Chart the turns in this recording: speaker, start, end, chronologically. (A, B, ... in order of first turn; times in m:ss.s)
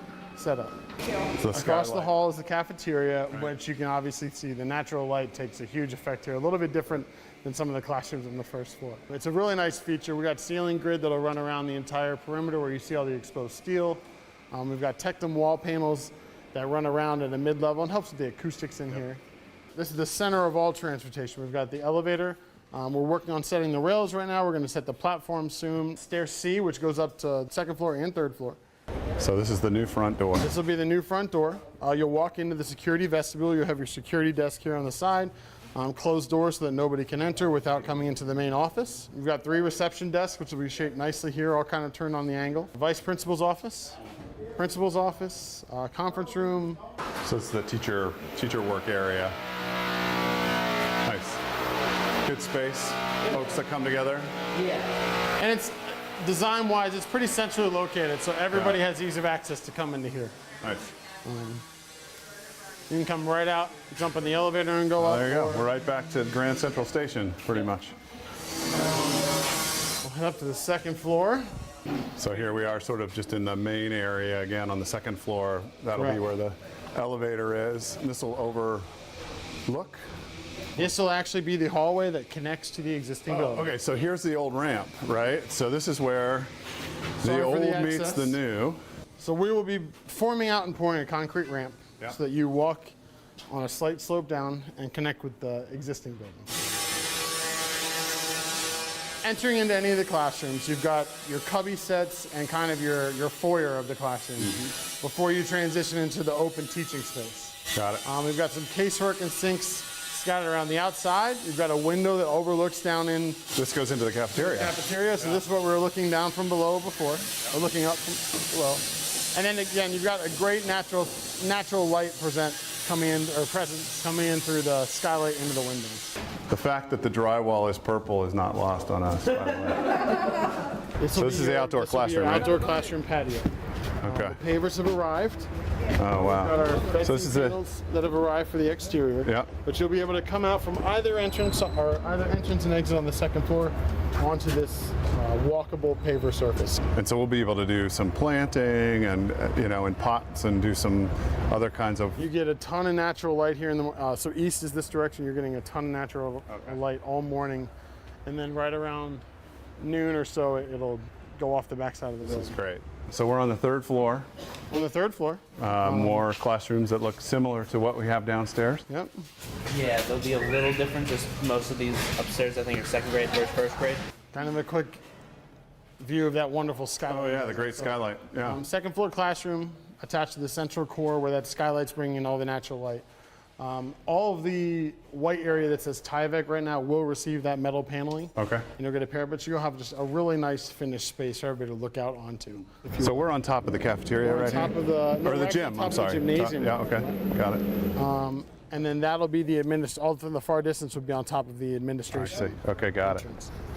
0:00.4-0:00.7 A
0:01.4-0:02.1 B
0:01.5-0:19.2 A
0:19.7-0:28.6 A
0:29.2-0:30.5 B
0:30.4-0:44.0 A
0:44.6-0:46.8 A
0:47.2-0:49.4 B
0:51.0-0:51.4 B
0:52.2-0:54.3 B
0:54.6-0:54.9 C
0:55.4-1:00.4 A
0:58.5-0:58.8 B
1:00.6-1:00.9 B
1:01.2-1:01.6 A
1:02.9-1:05.6 A
1:05.0-1:07.9 B
1:10.0-1:11.5 A
1:12.2-1:18.9 B
1:15.9-1:16.2 A
1:19.7-1:20.0 B
1:20.8-1:23.7 A
1:23.3-1:26.5 B
1:27.2-1:28.8 B
1:27.2-1:28.4 A
1:29.2-1:32.9 A
1:33.5-1:36.5 A
1:39.2-1:53.5 A
1:47.7-1:48.0 B
1:53.5-1:54.7 B
1:54.3-2:06.1 A
2:06.5-2:10.0 B
2:11.0-2:13.5 A
2:11.1-2:12.5 B
2:14.0-2:14.4 B
2:14.0-2:15.5 A
2:16.0-2:17.6 B
2:16.1-2:26.8 A
2:19.2-2:19.5 B
2:26.9-2:32.2 B
2:32.2-2:37.7 A
2:38.2-2:39.2 A
2:39.8-2:42.6 A
2:42.2-2:44.3 B
2:44.7-2:46.2 A
2:45.6-2:48.8 B
2:49.7-2:54.0 C
2:54.3-2:55.0 A
2:56.0-3:03.0 A
2:57.1-2:58.6 B
3:03.6-3:13.0 A
3:08.4-3:08.7 B
3:13.0-3:17.6 B
3:14.2-3:17.0 A
3:17.9-3:23.5 A
3:22.1-3:23.2 B